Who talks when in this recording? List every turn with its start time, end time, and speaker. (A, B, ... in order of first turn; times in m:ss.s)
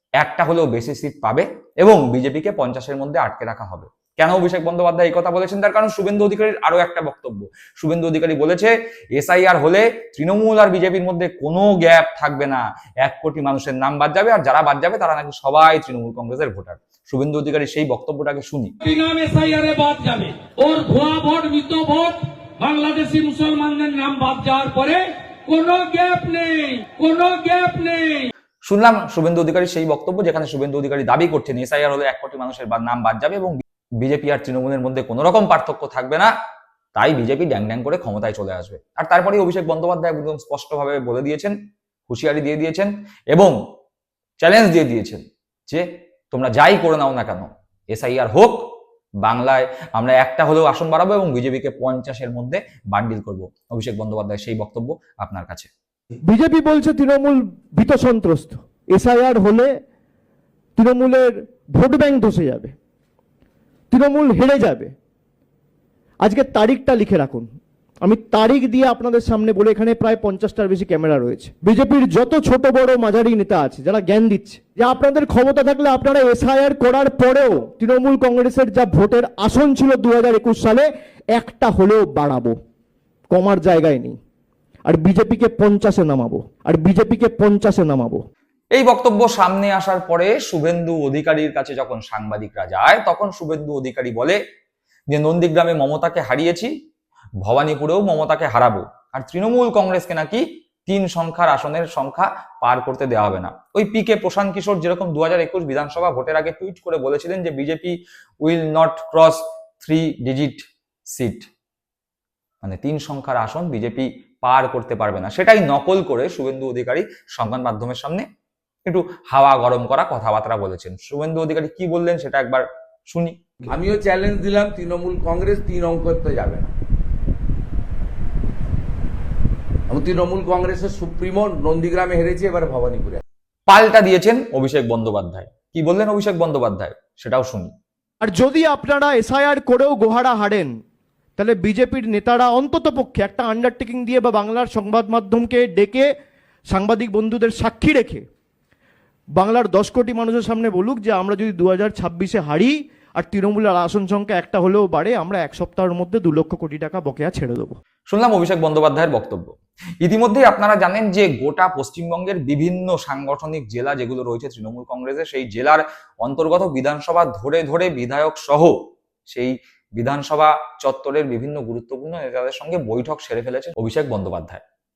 0:00.2-0:18.7 A
0:18.8-0:28.3 B
0:28.6-0:36.3 A
0:37.0-0:41.6 A
0:42.1-0:43.5 A
0:44.4-0:48.6 A
0:49.2-0:55.7 A
0:56.3-0:59.7 C
1:00.8-1:02.7 C
1:03.9-1:04.9 C
1:06.2-1:07.5 C
1:08.0-1:22.6 C
1:23.3-1:24.2 C
1:24.9-1:28.2 C
1:28.7-1:34.4 A
1:35.1-1:36.7 A
1:37.4-1:51.5 A
1:52.6-1:58.2 A
1:58.9-2:03.4 A
2:03.7-2:06.7 D
2:09.9-2:13.2 D
2:13.7-2:17.7 A
2:18.2-2:20.7 C
2:21.4-2:26.1 C
2:26.7-2:28.2 C
2:29.4-2:37.8 C
2:38.1-2:39.5 A
2:40.0-2:48.7 A
2:49.3-2:54.6 A